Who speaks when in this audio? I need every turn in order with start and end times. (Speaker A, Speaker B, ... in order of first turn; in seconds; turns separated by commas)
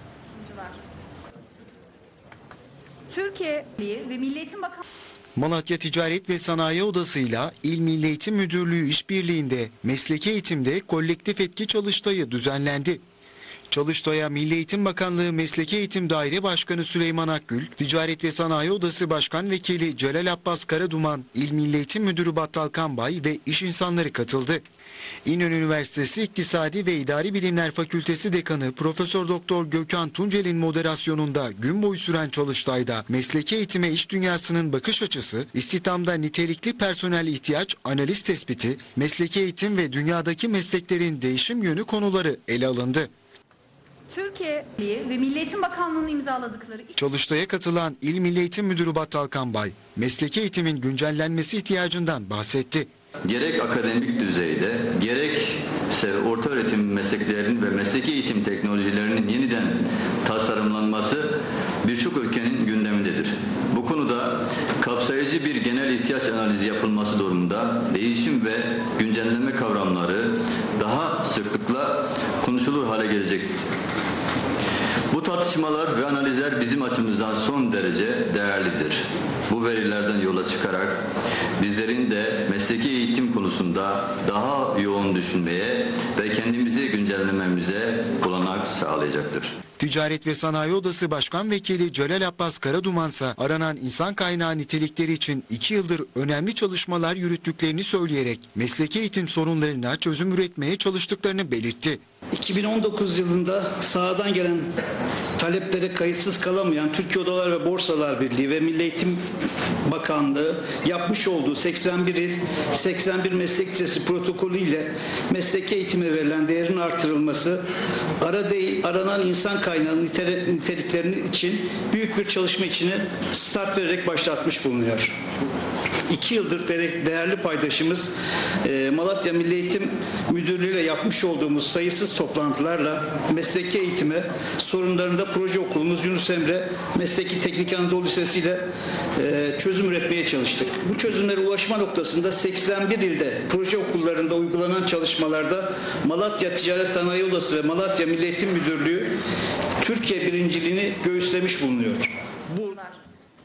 Speaker A: 0.4-0.7, Speaker A: 3.1-4.8, Speaker B: 5.4-13.0, Speaker B: 13.7-24.6, Speaker B: 25.2-43.1, Speaker A: 44.1-46.9, Speaker B: 47.0-52.9, Speaker C: 53.2-73.7, Speaker C: 75.1-81.0, Speaker C: 81.6-89.5, Speaker B: 89.8-102.0, Speaker D: 102.3-104.7, Speaker D: 105.4-109.2, Speaker D: 109.9-117.6, Speaker D: 118.2-125.1, Speaker D: 126.1-128.1, Speaker D: 128.6-138.7, Speaker D: 139.2-149.1, Speaker D: 149.8-152.8